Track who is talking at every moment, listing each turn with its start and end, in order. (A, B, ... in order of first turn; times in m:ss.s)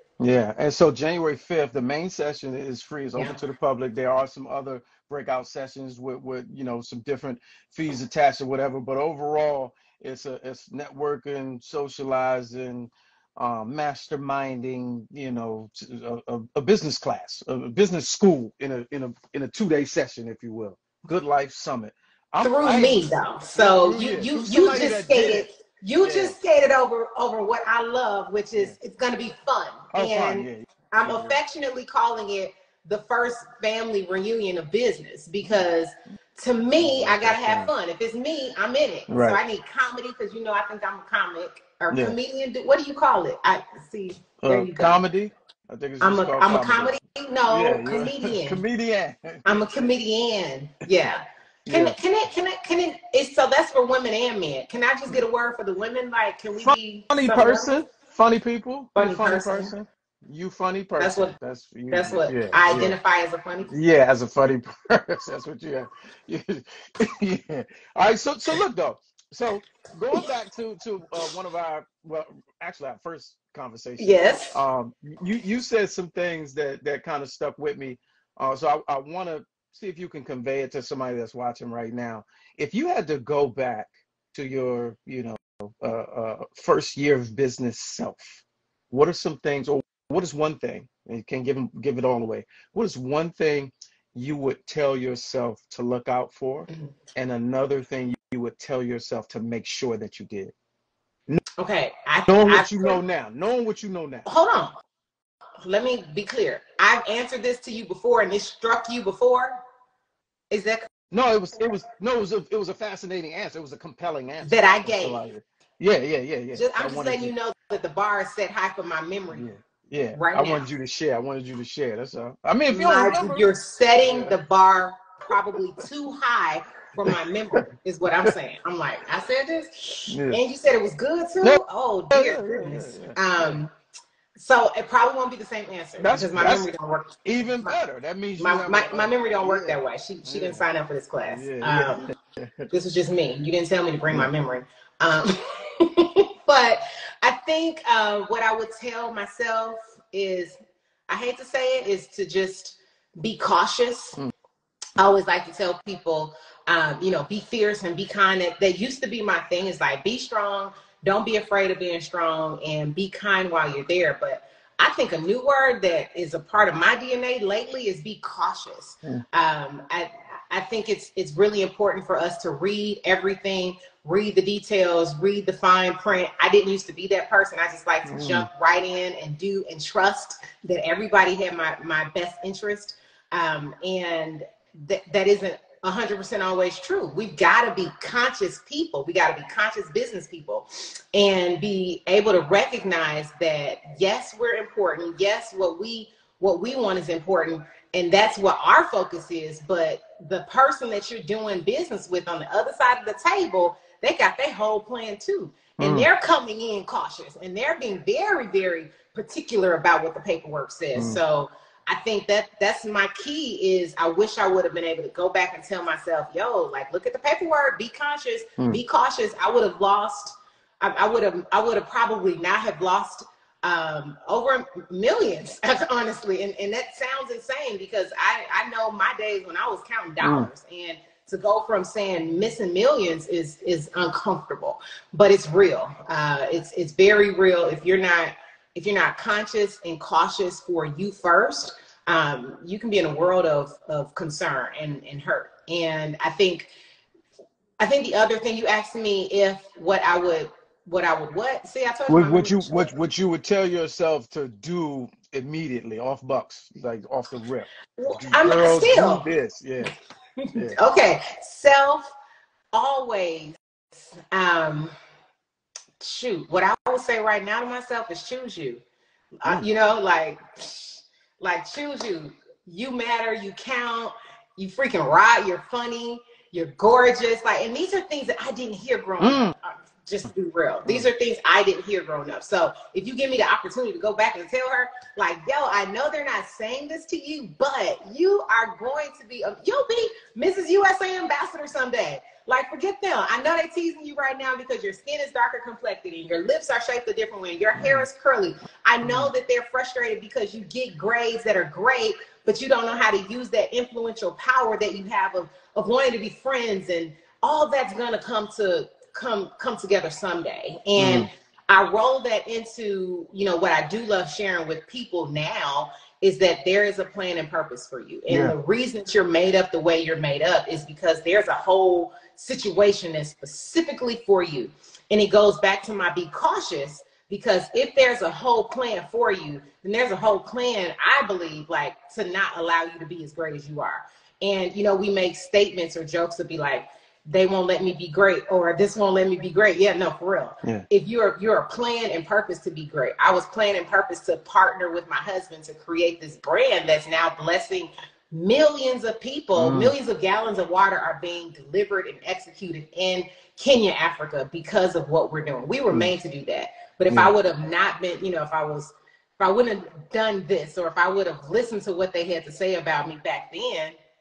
0:00.2-0:25.5 A
0:22.4-0:45.0 B
0:26.0-0:26.4 A
0:29.9-0:31.4 A
0:35.4-0:35.7 A
0:36.8-0:37.7 A
0:39.1-0:39.4 A
0:41.9-0:42.2 A
0:44.4-0:46.9 A
0:46.0-0:48.6 B
0:47.5-0:49.8 A
0:49.4-0:57.7 B
0:51.6-0:52.0 A
0:56.6-1:03.0 A
0:58.9-0:59.7 B
1:01.0-1:01.3 B
1:01.9-1:03.7 B
1:03.7-1:40.5 A
1:14.0-1:14.5 B
1:41.6-1:43.0 B
1:42.2-1:44.2 A
1:44.2-1:44.7 B
1:45.6-1:49.6 B
1:50.5-1:50.9 B
1:51.1-1:57.3 A
1:54.4-1:55.2 B
1:56.5-1:59.5 B
1:59.3-2:03.5 A
2:00.1-2:00.6 B
2:02.7-2:13.7 B
2:04.0-2:04.4 A
2:10.1-2:10.4 A
2:11.4-2:13.6 A
2:14.4-2:17.7 B
2:16.0-2:16.7 A
2:17.2-2:20.6 A
2:18.4-2:22.1 B
2:21.3-2:22.7 A
2:22.7-2:30.6 B
2:31.1-2:34.2 B
2:35.0-4:06.7 B
2:58.0-2:58.5 A
3:25.8-3:26.1 A
3:30.9-3:31.2 A
3:50.2-3:50.5 A
4:07.8-4:12.9 B
4:12.1-4:19.9 A
4:18.0-4:19.3 B
4:20.4-4:22.1 B
4:22.7-4:24.9 B
4:26.0-4:28.8 B
4:29.4-6:03.9 B
4:39.2-4:39.5 A
4:57.7-4:58.0 A
4:59.0-4:59.3 A
5:11.0-5:11.3 A
5:18.3-5:18.6 A
5:49.5-5:50.0 A